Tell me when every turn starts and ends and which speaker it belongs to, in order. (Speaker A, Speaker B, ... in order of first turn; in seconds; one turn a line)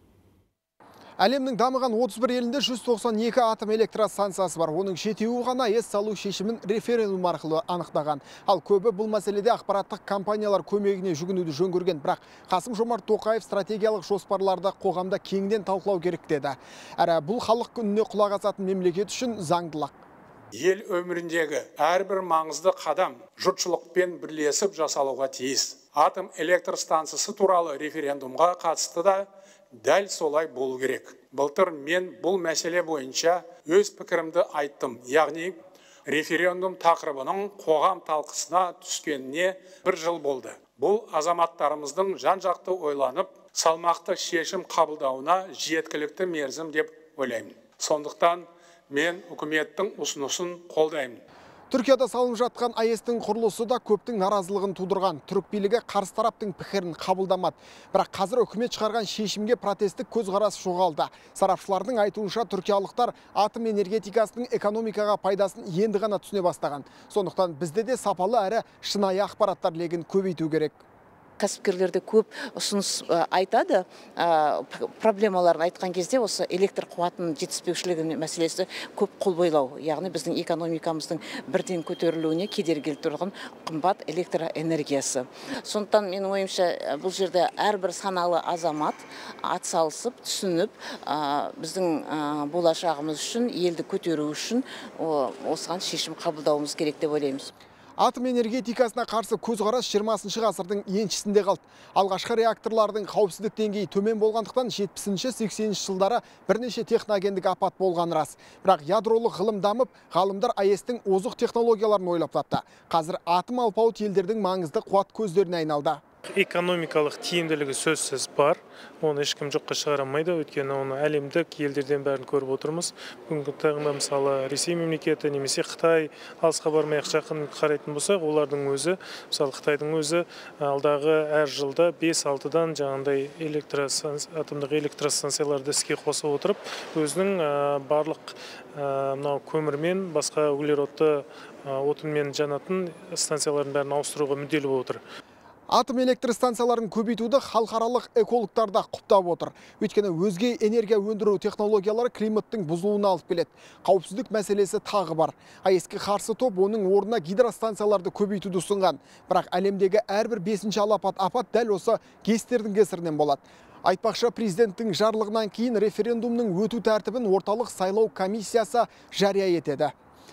Speaker A: 1.2-19.9
Speaker B: 20.5-51.2
Speaker A: 51.7-70.8
Speaker C: 71.4-97.5
Speaker A: 98.0-116.0
Speaker D: 116.3-145.0
Speaker A: 145.7-169.9